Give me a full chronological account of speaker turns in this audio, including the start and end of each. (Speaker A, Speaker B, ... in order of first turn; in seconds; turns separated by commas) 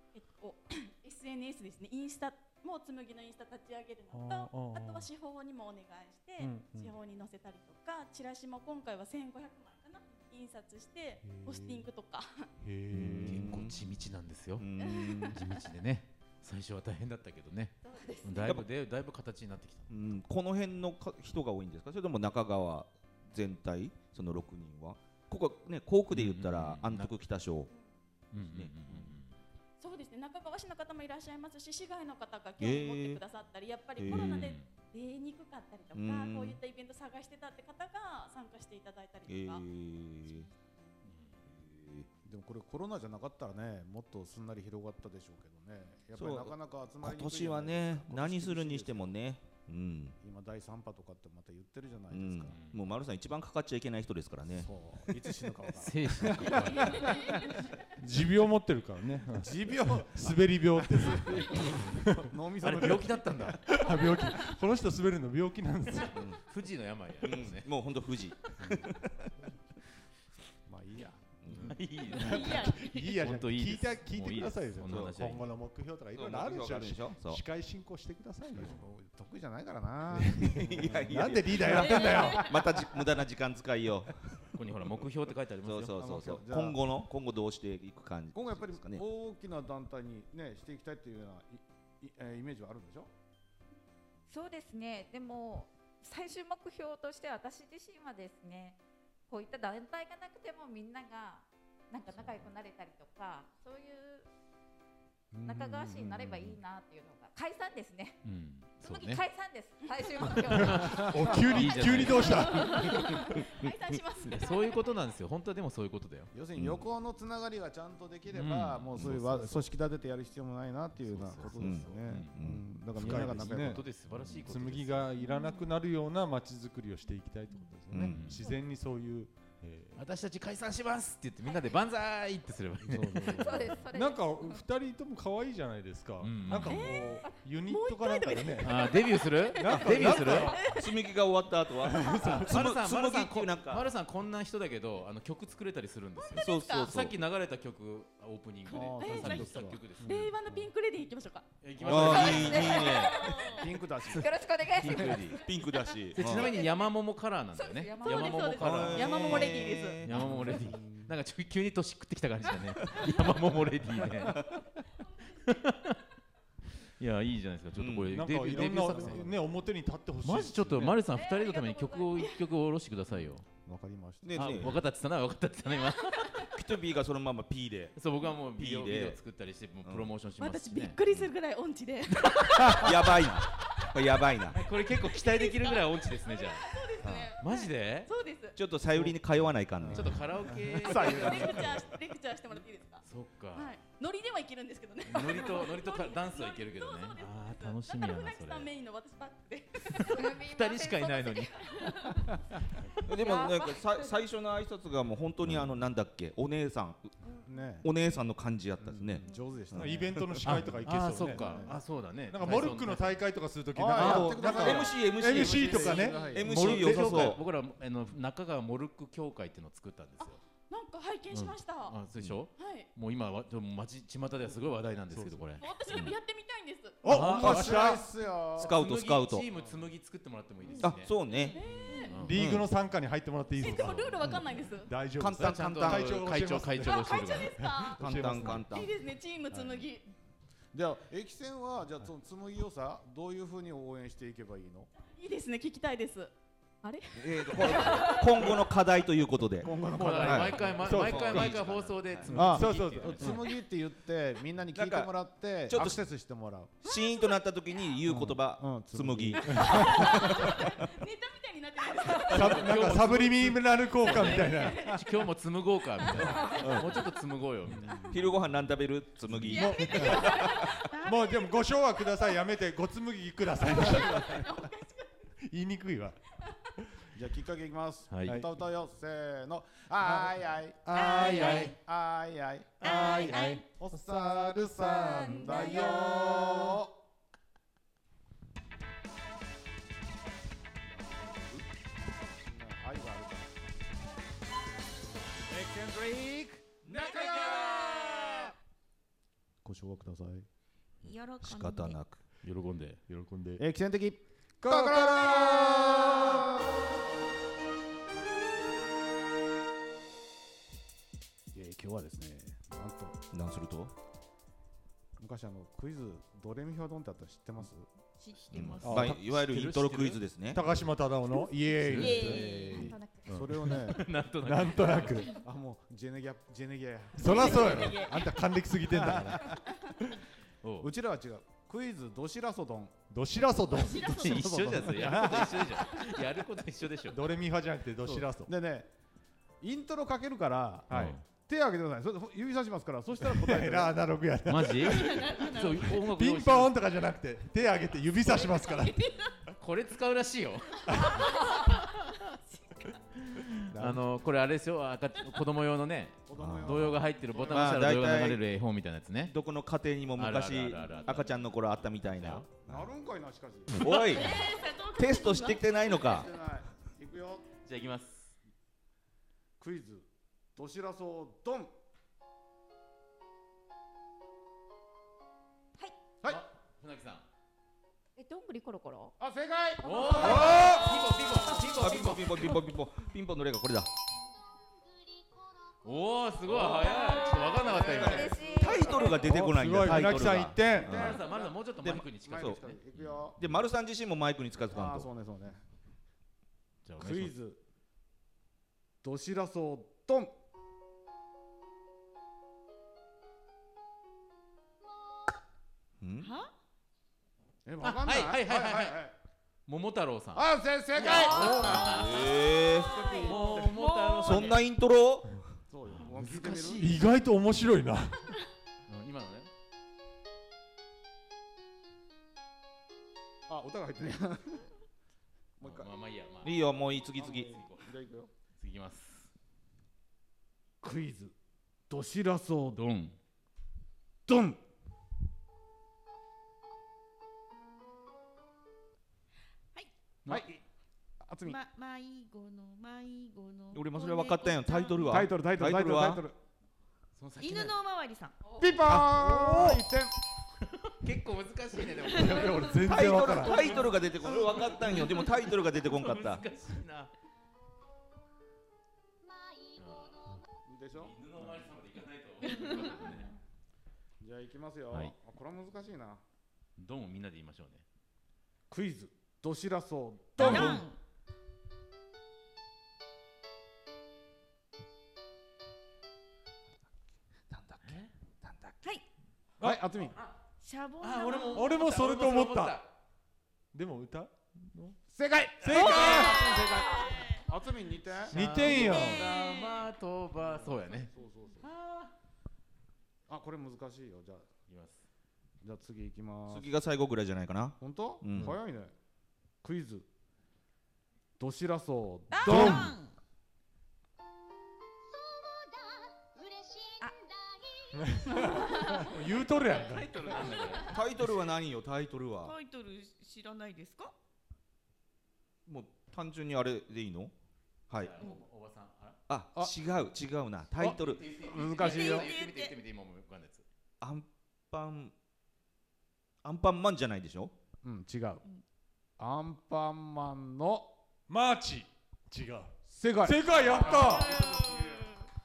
Speaker A: 0.1-12.5, Speaker B: 4.1-5.1, Speaker B: 6.4-6.9, Speaker B: 11.2-11.8, Speaker B: 12.6-13.5, Speaker C: 12.9-13.8, Speaker D: 13.0-14.7, Speaker C: 14.6-15.4, Speaker A: 14.8-15.5, Speaker D: 15.3-19.9, Speaker A: 17.8-18.6, Speaker E: 17.9-18.2, Speaker C: 19.9-27.7, Speaker D: 26.1-27.1, Speaker D: 28.3-29.3, Speaker C: 28.4-29.1, Speaker A: 29.8-39.6, Speaker C: 32.6-33.2, Speaker C: 34.0-34.5, Speaker D: 34.0-34.7, Speaker C: 35.9-36.6, Speaker C: 39.3-40.5, Speaker A: 40.2-41.0, Speaker D: 41.0-41.4, Speaker C: 41.5-42.1, Speaker F: 42.2-49.1, Speaker C: 46.1-50.1, Speaker F: 50.2-52.5, Speaker C: 52.1-55.1, Speaker D: 52.5-52.9, Speaker F: 54.5-57.6, Speaker D: 55.7-57.1, Speaker B: 58.0-62.3, Speaker F: 59.4-63.7, Speaker D: 61.5-61.8, Speaker D: 62.6-63.7, Speaker B: 63.6-66.3, Speaker C: 66.1-66.4, Speaker D: 66.4-67.7, Speaker C: 67.2-69.3, Speaker D: 68.5-68.8, Speaker B: 68.6-68.9, Speaker F: 70.7-71.3, Speaker C: 71.4-71.8, Speaker D: 71.5-75.5, Speaker B: 72.1-78.8, Speaker G: 72.2-73.2, Speaker C: 74.9-75.1, Speaker C: 76.1-77.4, Speaker F: 78.5-82.2, Speaker B: 80.1-82.5, Speaker C: 80.6-85.0, Speaker G: 81.9-82.5, Speaker D: 84.5-86.0, Speaker C: 85.6-89.0, Speaker F: 86.0-86.8, Speaker F: 88.3-93.1, Speaker E: 94.3-104.3, Speaker F: 105.3-106.6, Speaker E: 105.4-108.2, Speaker D: 108.2-109.2, Speaker E: 108.8-112.0, Speaker D: 110.3-113.2, Speaker B: 110.5-112.9, Speaker A: 112.2-115.1, Speaker C: 112.8-113.7, Speaker D: 114.2-116.3, Speaker F: 116.3-123.8, Speaker C: 116.5-116.8, Speaker D: 118.3-119.7, Speaker D: 121.0-122.4, Speaker C: 121.6-122.6, Speaker D: 122.9-125.1, Speaker B: 123.0-130.0, Speaker G: 125.2-125.6, Speaker C: 127.9-128.2, Speaker D: 128.0-128.5, Speaker D: 129.9-133.7, Speaker F: 132.8-133.8, Speaker E: 133.3-134.6, Speaker B: 133.8-139.0, Speaker D: 136.2-136.9, Speaker A: 136.6-139.9, Speaker D: 138.6-140.6, Speaker B: 139.6-140.8, Speaker C: 139.9-143.9, Speaker A: 140.5-140.9, Speaker B: 141.8-142.7, Speaker D: 142.2-150.3, Speaker A: 146.2-146.9, Speaker C: 146.3-147.1, Speaker F: 148.7-150.7, Speaker A: 149.0-151.5, Speaker D: 151.6-152.9, Speaker C: 151.8-153.3, Speaker E: 151.9-155.4, Speaker A: 152.2-153.5, Speaker G: 152.9-153.7, Speaker F: 153.6-154.4, Speaker D: 154.1-155.4, Speaker C: 155.3-156.5, Speaker D: 156.1-164.4, Speaker E: 157.5-158.5, Speaker A: 158.0-160.0, Speaker C: 158.6-160.7, Speaker F: 160.2-161.1, Speaker C: 162.9-163.2, Speaker D: 165.4-166.0, Speaker D: 166.8-169.3, Speaker C: 167.8-168.2, Speaker B: 168.1-171.0, Speaker F: 168.4-169.4, Speaker D: 170.2-173.4, Speaker A: 171.1-172.4, Speaker F: 173.6-174.7, Speaker C: 174.2-174.8, Speaker D: 174.3-176.5, Speaker A: 176.0-176.5, Speaker C: 176.4-178.0, Speaker D: 177.9-181.0, Speaker C: 178.6-179.2, Speaker C: 179.8-180.1, Speaker A: 180.4-183.3, Speaker C: 182.6-184.6, Speaker D: 184.5-186.8, Speaker A: 185.0-188.6, Speaker D: 187.4-188.1, Speaker C: 188.6-190.2, Speaker F: 189.8-191.9, Speaker D: 189.9-191.9, Speaker A: 190.8-193.0, Speaker D: 193.0-193.7, Speaker A: 193.5-200.4, Speaker D: 195.1-198.7, Speaker D: 199.8-201.7, Speaker E: 200.0-202.0, Speaker D: 202.8-203.1, Speaker C: 203.0-207.1, Speaker A: 203.1-203.8, Speaker E: 203.2-203.5, Speaker F: 207.4-207.9, Speaker C: 207.8-210.7, Speaker F: 208.8-210.1, Speaker B: 209.7-217.3, Speaker D: 210.4-213.2, Speaker F: 211.1-211.8, Speaker F: 213.7-216.9, Speaker C: 213.9-217.4, Speaker D: 216.4-220.4, Speaker A: 220.7-221.9, Speaker D: 221.3-226.1, Speaker A: 222.6-222.9, Speaker B: 225.1-225.6, Speaker A: 225.6-227.0, Speaker B: 227.0-228.0, Speaker D: 227.1-227.8, Speaker F: 227.1-228.7, Speaker C: 227.3-227.9, Speaker C: 228.6-229.5, Speaker D: 228.6-231.2, Speaker F: 229.5-229.9, Speaker C: 230.8-231.6, Speaker A: 231.5-232.2, Speaker F: 231.6-232.0, Speaker D: 231.9-232.4, Speaker B: 232.2-234.2, Speaker C: 232.3-232.7, Speaker D: 233.6-234.2, Speaker A: 233.6-234.9, Speaker C: 234.2-234.5, Speaker B: 234.8-238.7, Speaker C: 235.1-236.3, Speaker D: 235.4-237.6, Speaker A: 236.8-240.1, Speaker C: 238.0-238.9, Speaker F: 240.7-244.9, Speaker A: 245.1-246.3, Speaker A: 246.8-248.7, Speaker C: 247.1-252.6, Speaker F: 249.6-250.8, Speaker D: 249.9-253.3, Speaker B: 250.8-251.6, Speaker B: 252.3-253.5, Speaker F: 252.3-256.7, Speaker C: 254.7-255.1, Speaker C: 255.7-256.0, Speaker C: 256.8-260.9, Speaker A: 256.9-257.3, Speaker F: 258.0-260.5, Speaker A: 259.4-262.7, Speaker B: 259.5-259.8, Speaker D: 262.1-268.1, Speaker B: 262.3-265.0, Speaker A: 264.1-265.0, Speaker A: 266.2-266.7, Speaker B: 266.5-266.9, Speaker F: 267.7-268.4, Speaker C: 268.1-270.9, Speaker B: 269.4-274.5, Speaker A: 269.5-271.0, Speaker G: 270.9-271.5, Speaker A: 273.6-275.1, Speaker B: 275.4-276.2, Speaker F: 277.1-286.9, Speaker D: 278.1-278.4, Speaker B: 280.1-280.3, Speaker B: 280.9-281.7, Speaker E: 280.9-281.7, Speaker G: 281.0-281.7, Speaker D: 281.0-281.7, Speaker E: 282.8-283.5, Speaker G: 282.8-283.6, Speaker D: 282.9-283.6, Speaker B: 282.9-283.6, Speaker E: 285.0-286.6, Speaker B: 285.5-286.1, Speaker F: 290.8-291.6, Speaker F: 292.4-293.6, Speaker F: 295.5-298.3, Speaker F: 299.6-300.4, Speaker G: 301.0-302.0, Speaker C: 301.4-302.2, Speaker D: 302.4-303.1, Speaker B: 303.1-303.6, Speaker F: 303.6-306.6, Speaker B: 304.6-306.5, Speaker F: 311.5-313.2, Speaker C: 313.3-313.9, Speaker F: 315.2-317.9, Speaker G: 318.1-319.1, Speaker D: 318.4-320.2, Speaker B: 318.8-319.2, Speaker C: 318.9-320.6, Speaker B: 320.5-322.7, Speaker G: 321.3-323.0, Speaker D: 321.8-325.3, Speaker E: 322.4-323.5, Speaker F: 323.3-324.1, Speaker B: 324.4-325.3, Speaker G: 325.1-325.4, Speaker F: 325.3-328.0, Speaker B: 327.1-329.6, Speaker G: 327.2-328.4, Speaker F: 328.9-329.6, Speaker D: 330.6-330.9, Speaker F: 330.8-333.0, Speaker B: 333.1-334.2, Speaker G: 333.7-334.7, Speaker D: 334.0-337.2, Speaker F: 334.2-335.9, Speaker B: 337.1-338.5, Speaker F: 338.0-338.9, Speaker F: 339.6-344.0, Speaker D: 340.9-341.2, Speaker B: 343.2-349.1, Speaker D: 344.4-346.7, Speaker G: 344.9-346.0, Speaker G: 348.2-349.4, Speaker D: 349.5-351.2, Speaker B: 350.9-351.2, Speaker G: 351.0-352.0, Speaker G: 352.6-352.9, Speaker D: 353.2-359.3, Speaker F: 353.7-354.1, Speaker F: 356.3-358.0, Speaker C: 356.3-358.4, Speaker C: 359.2-362.9, Speaker D: 360.2-361.3, Speaker G: 360.8-361.3, Speaker D: 362.1-362.5, Speaker F: 362.7-364.0, Speaker C: 363.7-366.3, Speaker G: 363.9-366.1, Speaker F: 365.8-367.4, Speaker D: 367.6-368.4, Speaker F: 369.6-371.7, Speaker D: 376.2-377.2, Speaker E: 378.2-379.1, Speaker F: 379.2-380.7, Speaker D: 379.8-382.6, Speaker E: 379.9-380.8, Speaker C: 380.2-380.9, Speaker C: 381.6-383.9, Speaker D: 385.8-388.5, Speaker F: 386.5-386.9, Speaker E: 386.9-389.1, Speaker F: 387.5-389.2, Speaker C: 388.5-391.2, Speaker B: 389.2-391.0, Speaker F: 390.7-393.4, Speaker D: 390.9-393.3, Speaker C: 391.8-392.6, Speaker C: 393.4-395.1, Speaker F: 394.7-395.6, Speaker D: 396.8-397.3, Speaker F: 397.0-397.6, Speaker F: 399.0-400.4, Speaker C: 406.0-406.3, Speaker G: 406.2-406.5, Speaker F: 407.6-409.1, Speaker D: 407.8-409.0, Speaker D: 409.7-414.6, Speaker F: 410.3-412.2, Speaker G: 411.0-414.6, Speaker C: 411.7-413.0, Speaker F: 412.7-413.7, Speaker C: 414.2-415.5, Speaker F: 415.7-416.9, Speaker D: 415.9-417.1, Speaker B: 416.8-418.3, Speaker D: 418.9-419.5, Speaker F: 423.5-424.7, Speaker F: 425.6-425.9, Speaker D: 425.6-427.9, Speaker C: 426.4-427.6, Speaker F: 427.1-428.3, Speaker D: 428.6-429.3, Speaker F: 430.8-431.3, Speaker F: 431.9-432.8, Speaker D: 432.7-433.1, Speaker F: 434.3-434.6, Speaker F: 440.3-440.6, Speaker F: 441.2-441.6, Speaker G: 441.4-445.1, Speaker C: 443.7-446.2, Speaker F: 445.0-446.4, Speaker D: 447.1-447.8, Speaker G: 447.4-448.5, Speaker F: 448.6-450.1, Speaker B: 448.8-449.9, Speaker D: 450.6-453.1, Speaker B: 452.1-453.9, Speaker G: 452.3-452.8, Speaker C: 452.9-456.4, Speaker D: 454.2-457.1, Speaker D: 459.7-463.4, Speaker F: 460.6-461.1, Speaker G: 462.4-463.2, Speaker F: 464.2-466.2, Speaker D: 466.8-467.8, Speaker F: 468.7-470.8, Speaker G: 470.4-471.0, Speaker C: 477.5-478.8, Speaker D: 477.8-478.1, Speaker F: 479.6-480.2, Speaker G: 480.6-481.9, Speaker D: 481.0-482.9, Speaker B: 481.5-482.8, Speaker B: 483.7-485.0, Speaker F: 485.1-488.4, Speaker B: 485.6-486.4, Speaker E: 485.7-487.1, Speaker G: 486.1-487.4, Speaker D: 488.3-492.1, Speaker B: 488.3-489.3, Speaker G: 488.6-489.9, Speaker F: 490.4-491.7, Speaker F: 493.3-494.4, Speaker D: 494.7-495.0, Speaker F: 495.6-496.7, Speaker C: 496.5-498.5, Speaker F: 497.8-498.9, Speaker F: 499.6-500.1, Speaker F: 501.4-502.9, Speaker G: 502.3-503.1, Speaker B: 502.5-502.9, Speaker B: 507.9-510.2, Speaker G: 509.6-510.8, Speaker D: 509.8-511.0, Speaker C: 510.9-512.5, Speaker G: 512.4-514.1, Speaker C: 515.6-517.3, Speaker D: 518.0-519.2, Speaker C: 519.3-521.3, Speaker F: 520.8-522.3, Speaker D: 520.8-523.6, Speaker G: 521.5-522.8, Speaker C: 524.0-525.1, Speaker C: 526.4-527.5, Speaker F: 527.8-528.4, Speaker F: 529.2-530.9, Speaker B: 531.3-534.7, Speaker F: 532.9-534.5, Speaker G: 533.7-535.2